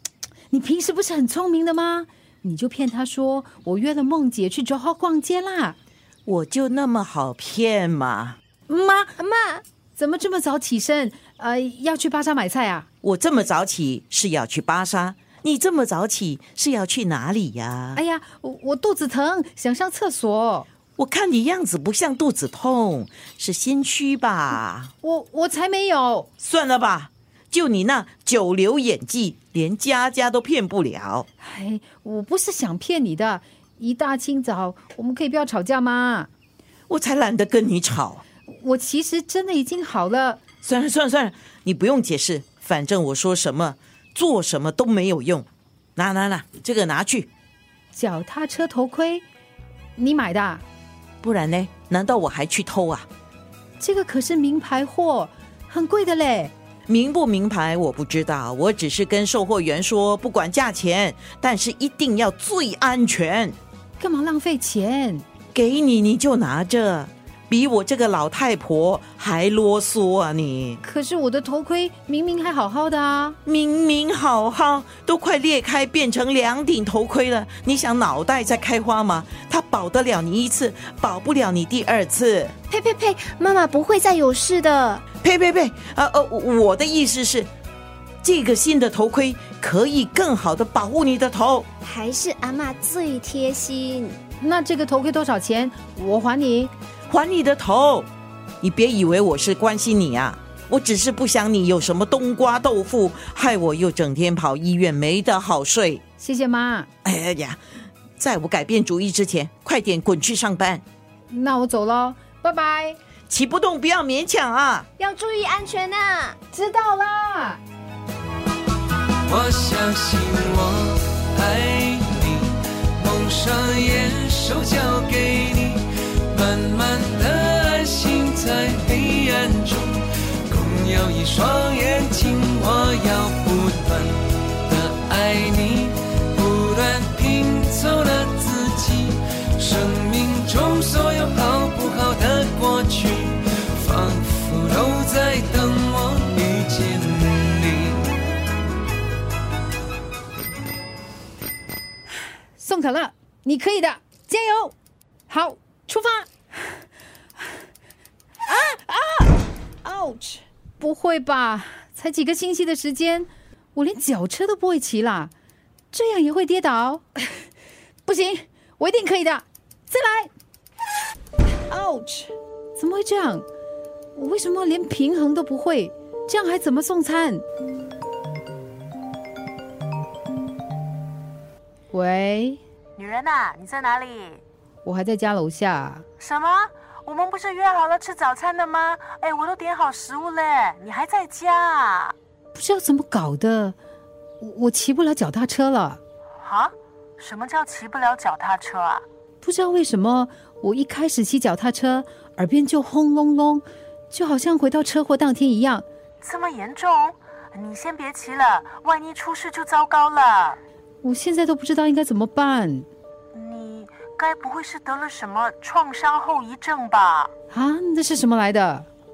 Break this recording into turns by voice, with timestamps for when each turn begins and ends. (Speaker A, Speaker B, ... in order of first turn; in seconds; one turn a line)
Speaker A: 0.5-5.8
Speaker B: 6.2-8.4
Speaker A: 8.7-9.2
Speaker C: 9.2-9.6
Speaker A: 10.0-12.9
Speaker B: 13.0-18.0
Speaker A: 17.9-20.7
Speaker B: 20.9-24.9
Speaker A: 25.0-26.3
Speaker B: 26.4-31.3
Speaker A: 31.4-36.3
Speaker B: 36.9-38.2
Speaker A: 38.5-40.4
Speaker B: 40.6-47.3
Speaker A: 47.9-49.2
Speaker A: 50.0-50.6
Speaker B: 51.2-53.1
Speaker A: 53.8-56.5
Speaker B: 56.9-63.5
Speaker A: 64.0-65.2
Speaker B: 65.5-70.8
Speaker A: 70.8-73.4
Speaker B: 73.4-82.5
Speaker C: 82.7-85.0
Speaker B: 85.2-87.5
Speaker B: 88.2-91.7
Speaker C: 91.8-94.2
Speaker A: 94.4-96.7
Speaker B: 97.1-98.1
Speaker B: 98.6-106.0
Speaker A: 106.2-106.9
Speaker B: 107.0-107.6
Speaker B: 108.2-110.8
Speaker A: 111.3-113.0
Speaker B: 113.3-114.9
Speaker C: 115.0-116.4
Speaker A: 116.5-117.6
Speaker D: 119.3-148.0
Speaker A: 152.6-154.7
Speaker A: 155.3-156.3
Speaker A: 158.4-165.3
Speaker A: 165.9-167.0
Speaker A: 168.1-170.3
Speaker A: 171.7-173.4
Speaker A: 174.1-177.4
Speaker A: 181.9-182.6
Speaker E: 183.0-184.4
Speaker A: 184.8-186.0
Speaker E: 186.2-192.1
Speaker A: 192.5-193.8
Speaker A: 194.4-196.0
Speaker E: 196.4-199.0
Speaker A: 199.4-205.8
Speaker E: 206.2-210.6
Speaker A: 211.0-212.9
Speaker E: 213.3-217.3
Speaker A: 217.5-218.9